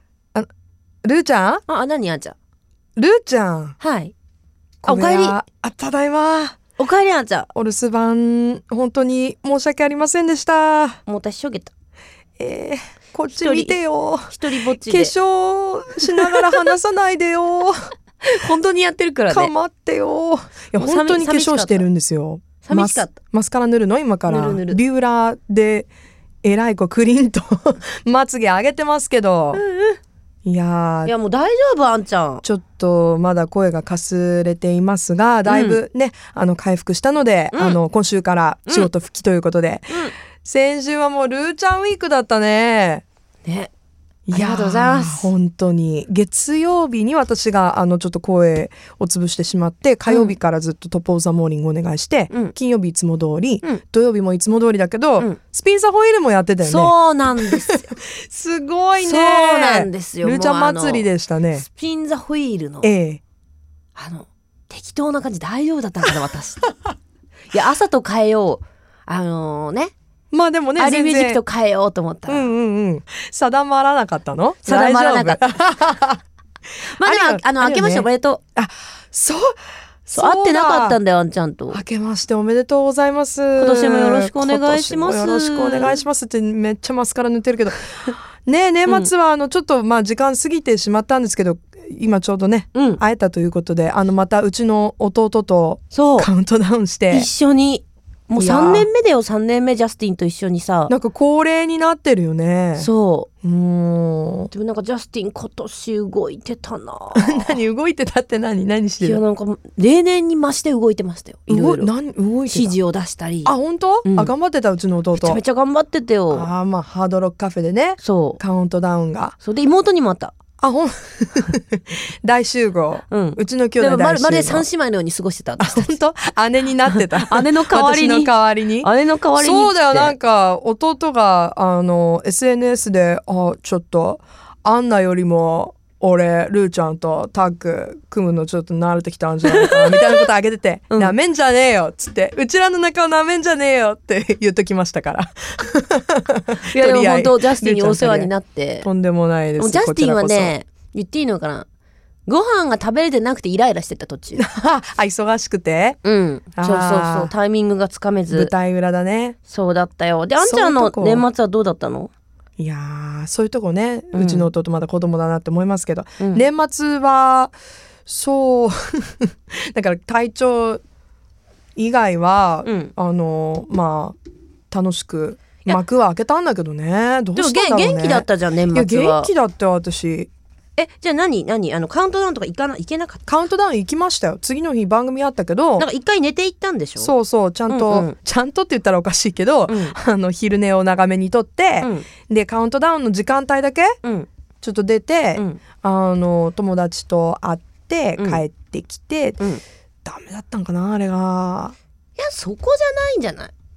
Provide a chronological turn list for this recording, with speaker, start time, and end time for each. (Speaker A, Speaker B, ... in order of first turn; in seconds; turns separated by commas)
Speaker A: 1.0-1.6, Speaker B: 1.7-2.4, Speaker A: 3.0-3.8, Speaker B: 3.8-4.1, Speaker A: 4.8-6.6, Speaker B: 4.8-5.4, Speaker B: 6.8-7.5, Speaker A: 7.5-11.0, Speaker B: 11.1-11.7, Speaker A: 12.4-17.8, Speaker B: 13.3-15.1, Speaker B: 18.2-19.5, Speaker A: 19.3-25.9, Speaker B: 20.8-21.9, Speaker B: 22.6-23.1, Speaker B: 24.3-24.8, Speaker A: 26.4-29.6, Speaker B: 29.5-30.0, Speaker A: 30.4-31.1, Speaker B: 31.0-32.4, Speaker A: 32.4-43.0, Speaker B: 35.5-35.8, Speaker B: 37.5-37.8, Speaker B: 43.4-43.7, Speaker A: 44.3-61.6, Speaker B: 44.3-45.3, Speaker B: 50.1-50.4, Speaker B: 52.3-52.5, Speaker B: 56.6-57.9, Speaker B: 59.0-61.1, Speaker B: 61.6-62.9, Speaker A: 62.8-63.2, Speaker B: 64.0-66.7, Speaker B: 67.5-69.9, Speaker A: 70.3-71.4, Speaker B: 70.8-72.5, Speaker A: 72.3-76.2, Speaker B: 74.6-75.6, Speaker B: 76.8-78.4, Speaker A: 77.0-81.0, Speaker B: 80.1-81.8, Speaker A: 81.7-97.3, Speaker B: 83.5-86.0, Speaker B: 92.7-93.0, Speaker B: 95.9-96.3, Speaker B: 97.1-100.9, Speaker A: 98.4-98.9, Speaker A: 100.9-102.9, Speaker B: 102.8-103.3, Speaker A: 103.4-104.5, Speaker B: 104.5-107.6, Speaker A: 107.1-109.2, Speaker B: 109.0-111.9, Speaker A: 111.5-112.8, Speaker B: 112.5-114.3, Speaker A: 113.4-115.4, Speaker B: 115.1-116.5, Speaker A: 116.3-119.3, Speaker B: 118.0-118.4, Speaker B: 119.4-120.3, Speaker A: 120.6-124.7, Speaker B: 123.1-126.0, Speaker A: 125.6-148.3, Speaker B: 126.8-130.2, Speaker B: 139.5-140.2, Speaker B: 146.7-148.9, Speaker A: 148.8-150.5, Speaker B: 149.6-151.7, Speaker B: 152.3-154.4, Speaker A: 154.3-156.0, Speaker B: 156.0-158.5, Speaker A: 156.5-157.3, Speaker A: 158.3-159.4, Speaker B: 159.5-162.1, Speaker A: 160.4-161.2, Speaker A: 162.6-167.5, Speaker B: 164.1-164.5, Speaker B: 166.2-166.4, Speaker A: 168.1-170.8, Speaker A: 171.8-174.2, Speaker B: 172.6-172.9, Speaker A: 174.7-180.3, Speaker B: 177.3-179.3, Speaker B: 180.8-183.2, Speaker A: 183.2-185.9, Speaker B: 185.8-187.1, Speaker A: 187.0-194.0, Speaker B: 187.7-188.1, Speaker B: 189.7-189.9, Speaker B: 191.8-192.1, Speaker A: 194.6-199.4, Speaker B: 198.2-198.4, Speaker A: 200.0-201.7, Speaker B: 202.2-203.5